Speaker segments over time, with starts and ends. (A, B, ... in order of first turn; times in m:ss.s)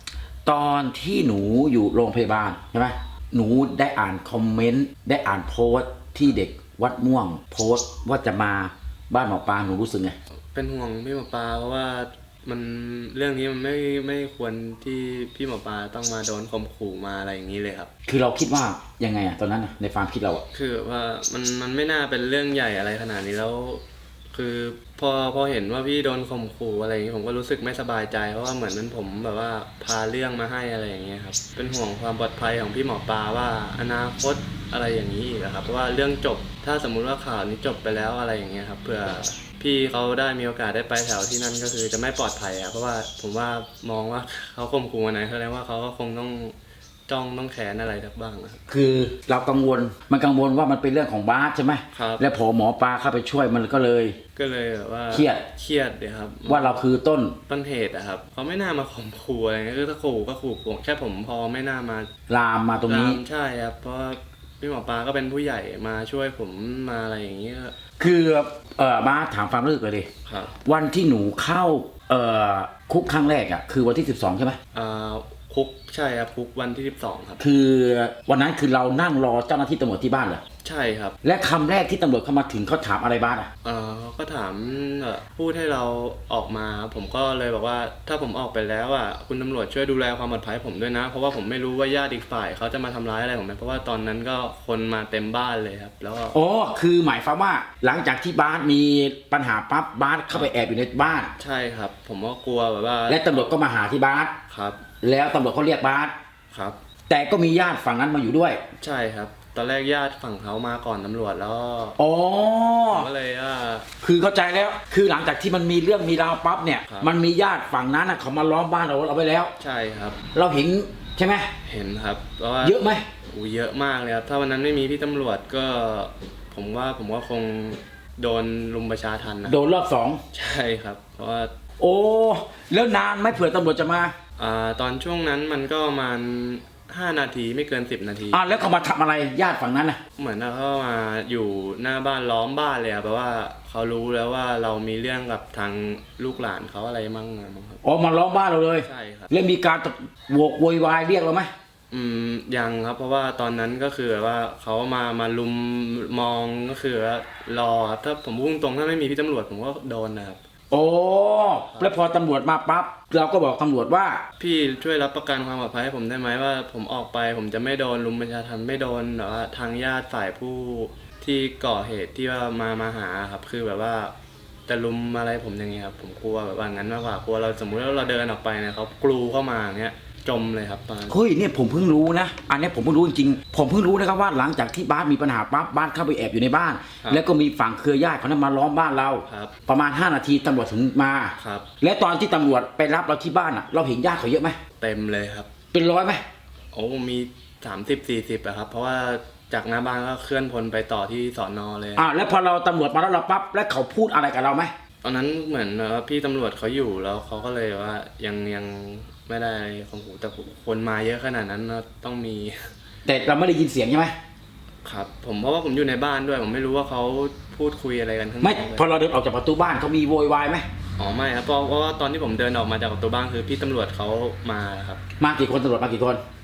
0:00.4-0:10.2 A
0:10.5-0:17.9 B
0:18.1-0:20.4 A
0:20.5-0:23.8 B
0:24.3-0:46.5 B
0:47.1-0:48.6 B
0:48.7-0:54.1 A
0:51.9-0:52.2 B
0:54.4-0:56.9 B
0:55.1-0:55.4 A
0:56.5-0:57.4 A
0:57.5-1:02.1 B
1:02.3-1:03.2 A
1:02.9-1:07.7 B
1:08.0-1:10.1 A
1:10.2-1:10.5 B
1:10.6-1:14.6 A
1:14.7-1:17.4 B
1:17.4-1:20.4 A
1:20.6-1:21.2 B
1:21.2-1:23.5 A
1:23.6-1:36.4 B
1:36.3-1:41.3 A
1:41.4-1:43.6 B
1:43.1-1:44.3 A
1:44.5-1:44.8 B
1:45.0-1:46.1 A
1:46.5-1:46.8 B
1:47.1-1:48.6 A
1:48.8-1:52.0 B
1:52.0-1:53.1 A
1:52.9-1:53.9 B
1:54.0-1:59.5 A
1:56.8-1:57.1 B
1:59.6-2:00.2 B
2:00.3-2:01.5 A
2:01.6-2:02.8 B
2:02.6-2:03.0 A
2:03.3-2:09.6 B
2:09.4-2:10.2 A
2:10.3-2:11.5 B
2:11.8-2:14.1 A
2:14.4-2:18.4 B
2:18.3-2:20.0 A
2:20.2-2:27.8 B
2:27.8-2:31.5 A
2:28.8-2:29.3 B
2:31.9-2:40.4 B
2:40.7-2:44.2 A
2:41.7-2:42.0 B
2:44.4-2:54.1 B
2:54.7-3:01.2 B
3:01.1-3:14.6 A
3:09.3-3:09.5 B
3:11.4-3:11.7 B
3:14.8-3:15.5 B
3:15.7-3:16.2 A
3:16.7-3:22.0 B
3:22.0-3:24.7 A
3:25.0-3:32.7 B
3:33.0-3:34.1 A
3:34.8-3:38.8 B
3:38.4-3:40.6 A
3:41.0-3:45.0 B
3:45.2-3:46.2 A